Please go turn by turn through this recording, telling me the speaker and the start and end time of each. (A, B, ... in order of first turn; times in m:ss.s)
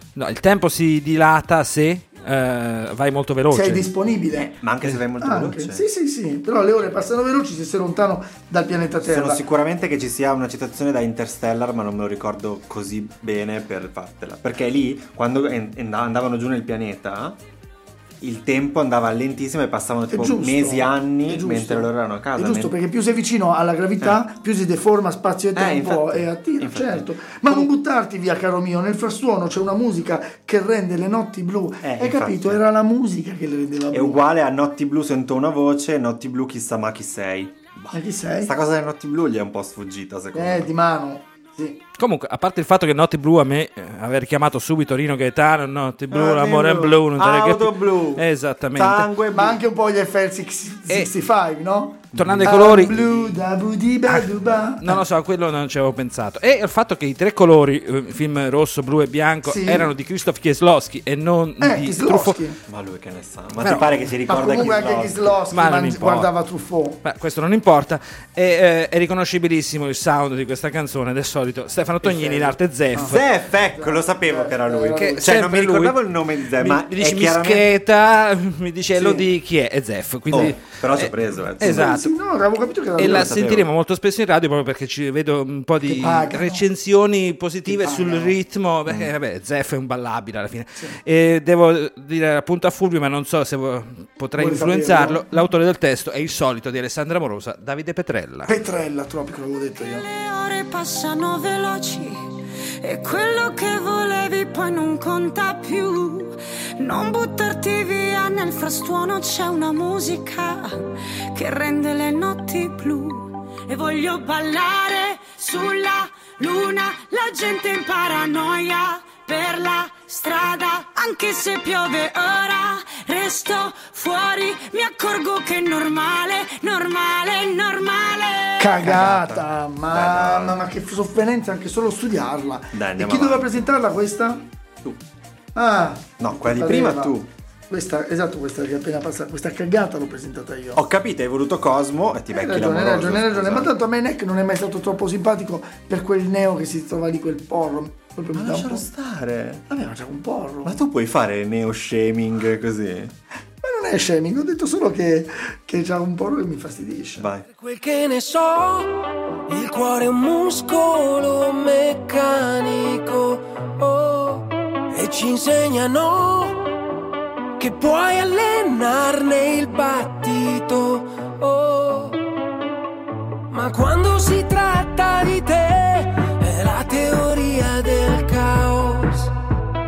0:00.2-0:03.9 A
0:03.5-0:04.6 B
0:04.6-0:05.8 C
0:05.2-0:09.4 B
0:09.0-0:17.4 C
0:18.2-0:22.8 C
0:20.1-0:34.2 B
0:25.5-0:27.7 C
0:31.8-0:32.6 C
0:33.9-0:40.7 C
0:37.9-0:38.5 B
0:40.3-0:41.8 B
0:42.0-0:49.1 A
0:46.1-0:49.6 C
0:49.3-0:55.0 B
0:52.1-0:53.4 C
0:52.2-0:53.0 A
0:54.1-1:02.4 A
0:59.4-0:59.9 B
1:01.6-1:02.6 B
1:02.7-1:05.4 C
1:03.6-1:03.9 A
1:04.3-1:07.0 B
1:05.5-1:06.3 A
1:07.0-1:13.2 A
1:12.0-1:15.3 B
1:13.0-1:17.7 C
1:15.0-1:22.1 A
1:19.0-1:19.2 B
1:20.3-1:22.0 C
1:21.6-1:23.4 B
1:23.0-1:23.7 C
1:23.0-1:38.5 A
1:25.8-1:26.7 B
1:27.7-1:28.4 B
1:34.4-1:35.4 B
1:38.5-1:40.0 B
1:39.9-1:42.2 D
1:42.8-1:50.8 D
1:51.3-2:08.8 D
2:08.6-2:14.5 B
2:08.8-2:10.6 C
2:12.7-2:13.6 C
2:15.6-2:17.2 B
2:16.2-2:17.3 C
2:17.7-2:20.8 B
2:20.8-2:23.7 C
2:22.3-2:28.8 B
2:28.3-2:29.6 C
2:29.7-2:30.8 B
2:30.6-2:33.2 C
2:33.6-2:37.3 B
2:37.2-2:37.5 C
2:37.5-2:46.7 E
2:47.6-2:52.2 E
2:53.5-2:59.3 E